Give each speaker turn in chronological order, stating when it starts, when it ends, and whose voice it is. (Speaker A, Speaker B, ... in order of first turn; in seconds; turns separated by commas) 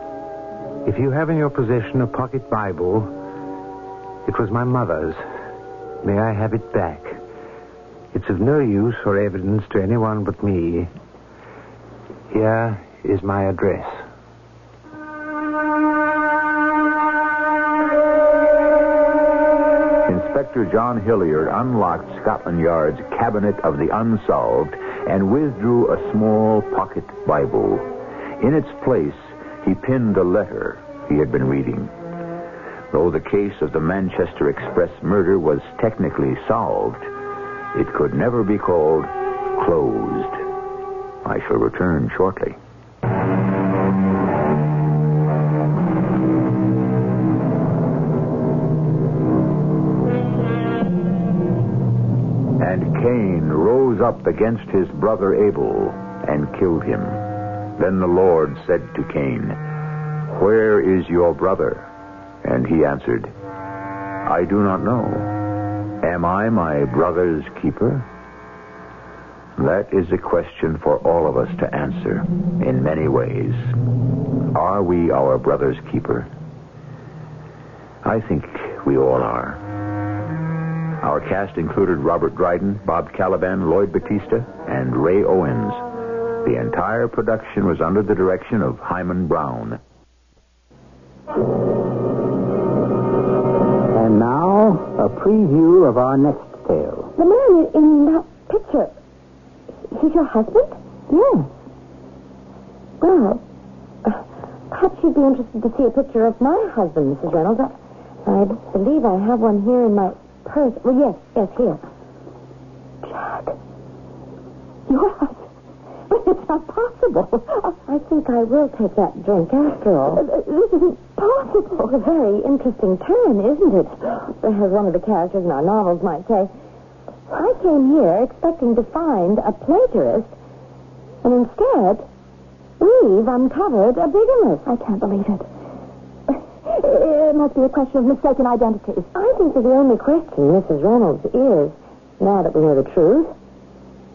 Speaker A: 0.8-3.1, Speaker A: 4.2-5.2, Speaker A: 6.0-7.2, Speaker A: 8.1-10.9, Speaker A: 12.3-14.0, Speaker B: 20.1-27.9, Speaker B: 28.4-31.9, Speaker B: 32.9-37.1, Speaker B: 37.7-40.4, Speaker B: 41.2-42.6, Speaker B: 52.6-57.2, Speaker B: 57.8-59.6, Speaker B: 60.3-61.9, Speaker B: 62.4-63.3, Speaker B: 64.2-65.3, Speaker B: 66.0-68.1, Speaker B: 69.6-73.7, Speaker B: 74.5-76.3, Speaker B: 78.0-79.6, Speaker B: 81.0-85.8, Speaker B: 86.4-89.8, Speaker C: 93.9-97.1, Speaker D: 97.2-98.9, Speaker D: 99.9-101.5, Speaker D: 103.0-103.4, Speaker D: 104.0-107.7, Speaker D: 108.2-111.8, Speaker D: 113.0-113.5, Speaker E: 114.9-115.2, Speaker D: 117.6-126.5, Speaker D: 127.3-130.3, Speaker D: 131.2-132.1, Speaker D: 132.8-134.7, Speaker E: 134.6-135.4, Speaker E: 136.7-139.1, Speaker D: 139.1-143.3